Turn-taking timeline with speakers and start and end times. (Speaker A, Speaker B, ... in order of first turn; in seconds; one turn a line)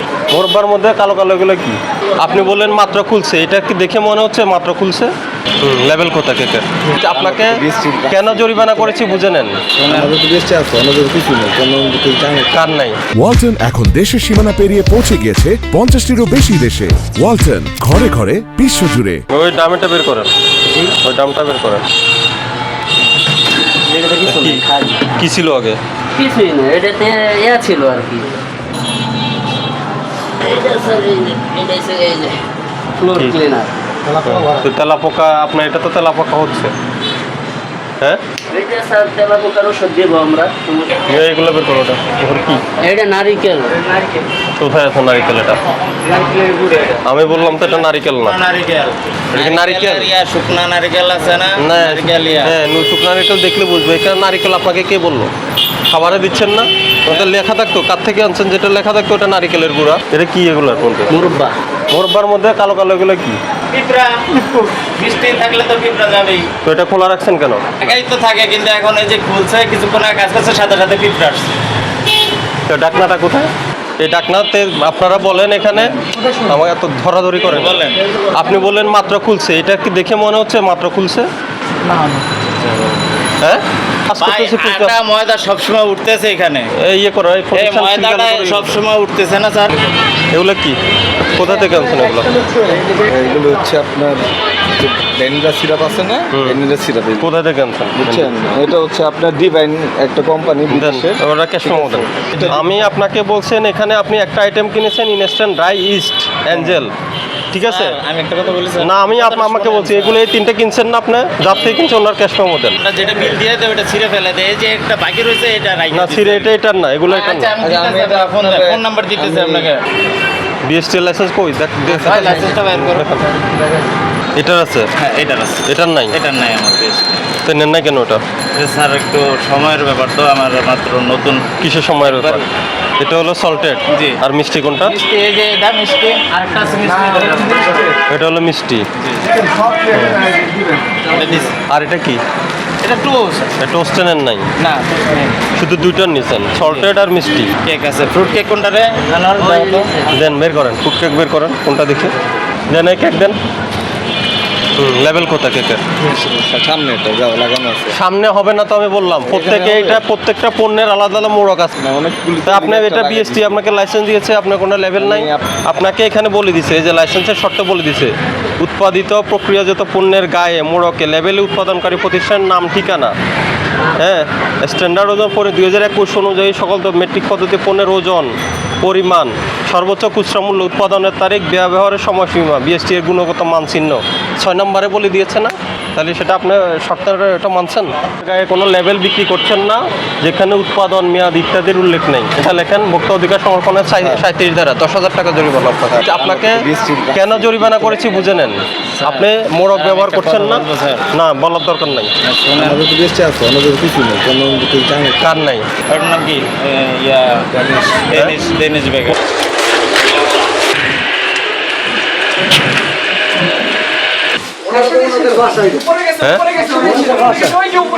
Speaker A: 0.3-9.6
Speaker B: 7.1-9.0
Speaker B: 9.8-12.5
Speaker C: 9.8-10.1
Speaker A: 12.5-13.0
Speaker D: 13.2-19.2
Speaker A: 19.3-20.3
Speaker A: 20.9-21.8
Speaker E: 23.8-25.2
Speaker A: 24.2-25.8
Speaker E: 26.1-28.3
Speaker E: 30.4-32.4
Speaker E: 33.0-33.7
Speaker A: 33.0-33.4
Speaker A: 34.1-36.7
Speaker E: 38.5-41.1
Speaker A: 41.1-42.6
Speaker E: 42.8-43.9
Speaker A: 44.6-45.6
Speaker C: 46.0-47.0
Speaker A: 47.0-48.4
Speaker C: 48.0-52.5
Speaker A: 49.3-50.1
Speaker A: 51.6-55.3
Speaker A: 55.9-61.2
Speaker E: 61.1-61.6
Speaker A: 61.9-63.4
Speaker C: 63.7-66.5
Speaker A: 66.6-68.0
Speaker C: 67.8-71.5
Speaker A: 72.7-81.3
Speaker C: 77.5-78.0
Speaker C: 81.9-82.9
Speaker A: 83.4-85.0
Speaker C: 84.2-86.7
Speaker A: 86.8-88.8
Speaker C: 87.5-89.9
Speaker A: 90.3-90.8
Speaker A: 91.3-92.4
Speaker B: 92.5-97.3
Speaker A: 96.3-96.6
Speaker A: 97.2-98.3
Speaker B: 98.0-102.5
Speaker A: 100.7-106.9
Speaker C: 106.5-106.8
Speaker A: 107.5-108.0
Speaker C: 107.6-110.2
Speaker A: 108.8-112.8
Speaker C: 112.8-116.5
Speaker A: 115.9-117.5
Speaker C: 117.1-119.8
Speaker B: 117.6-119.7
Speaker A: 120.7-123.3
Speaker C: 121.9-123.1
Speaker E: 123.4-123.8
Speaker A: 124.4-124.9
Speaker C: 125.0-127.1
Speaker A: 125.7-126.2
Speaker A: 127.4-128.2
Speaker C: 128.6-131.5
Speaker A: 131.6-132.5
Speaker C: 132.0-132.4
Speaker A: 133.0-135.0
Speaker C: 134.8-138.0
Speaker A: 138.1-138.9
Speaker C: 139.0-139.3
Speaker A: 139.9-140.2
Speaker C: 141.0-141.6
Speaker A: 141.7-142.2
Speaker C: 142.8-143.5
Speaker A: 143.6-144.4
Speaker C: 144.6-145.4
Speaker A: 145.6-147.5
Speaker C: 147.7-150.0
Speaker E: 149.4-149.9
Speaker A: 150.1-152.2
Speaker A: 152.7-153.4
Speaker A: 154.8-155.8
Speaker B: 156.0-158.0
Speaker A: 157.9-161.7
Speaker B: 159.2-160.0
Speaker B: 161.8-163.6
Speaker A: 162.5-173.1
Speaker B: 165.0-165.5
Speaker A: 174.0-196.6
Speaker B: 194.0-194.2
Speaker B: 195.9-198.2
Speaker A: 197.1-202.1
Speaker C: 199.0-201.1
Speaker C: 202.2-202.8
Speaker B: 202.6-205.4
Speaker A: 205.2-205.7
Speaker C: 205.9-209.2
Speaker B: 207.5-208.1
Speaker E: 214.9-215.8
Speaker A: 216.1-216.8
Speaker E: 217.1-217.5